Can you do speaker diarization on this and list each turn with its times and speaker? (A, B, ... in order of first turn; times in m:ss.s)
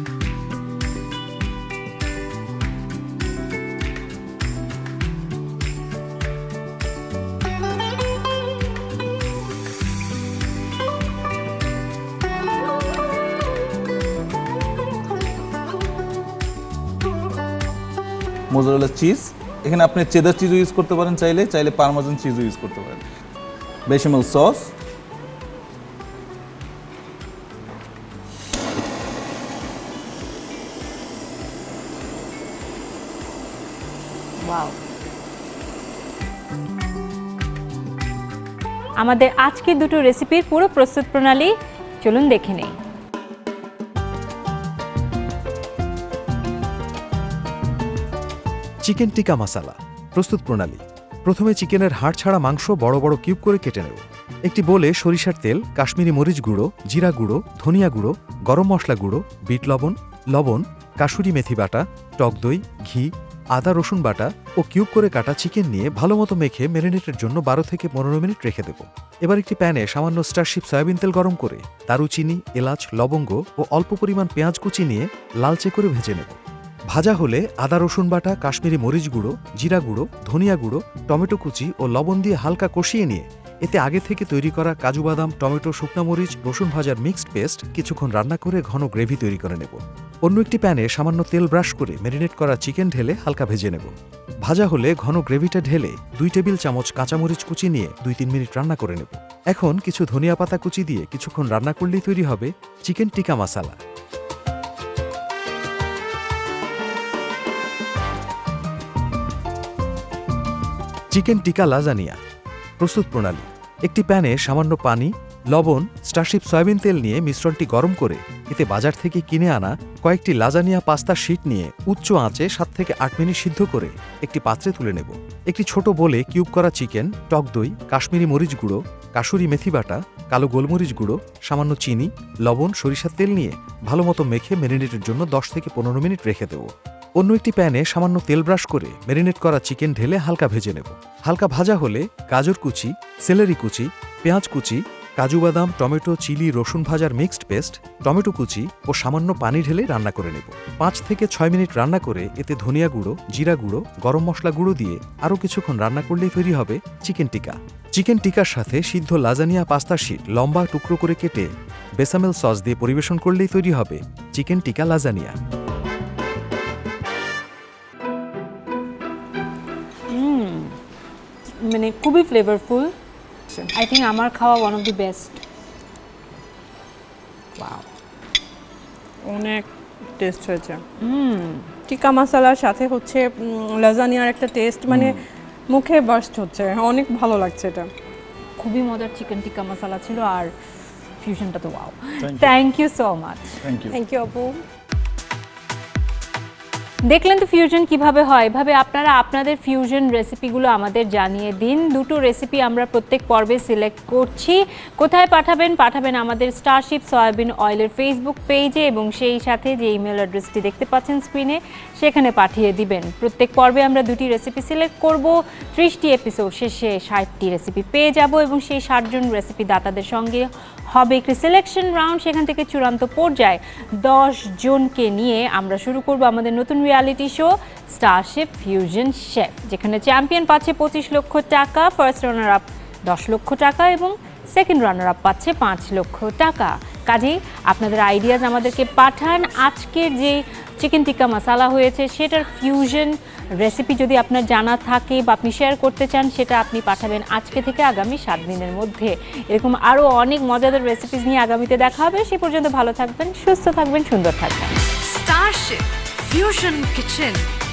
0:18.5-0:23.0 A
0:23.9-0:24.7 A
0:34.4-0:34.8 B
0:39.0-0:42.8 B
0:48.8-1:16.4 C
1:16.9-1:33.9 C
1:34.4-1:43.8 C
1:51.1-1:52.2 C
1:52.8-2:45.3 C
2:50.1-2:50.8 B
2:51.6-2:52.9 B
2:53.7-2:55.4 B
2:57.6-2:57.8 B
2:59.3-2:59.6 D
3:00.2-3:00.8 D
3:01.0-3:01.7 B
3:01.9-3:07.9 D
3:04.9-3:05.2 A
3:08.6-3:10.5 B
3:11.2-3:13.6 B
3:12.2-3:12.5 A
3:13.6-3:14.0 A
3:13.9-3:14.6 D
3:17.1-4:14.8 B
4:15.1-4:17.4 E
4:16.6-4:16.9 B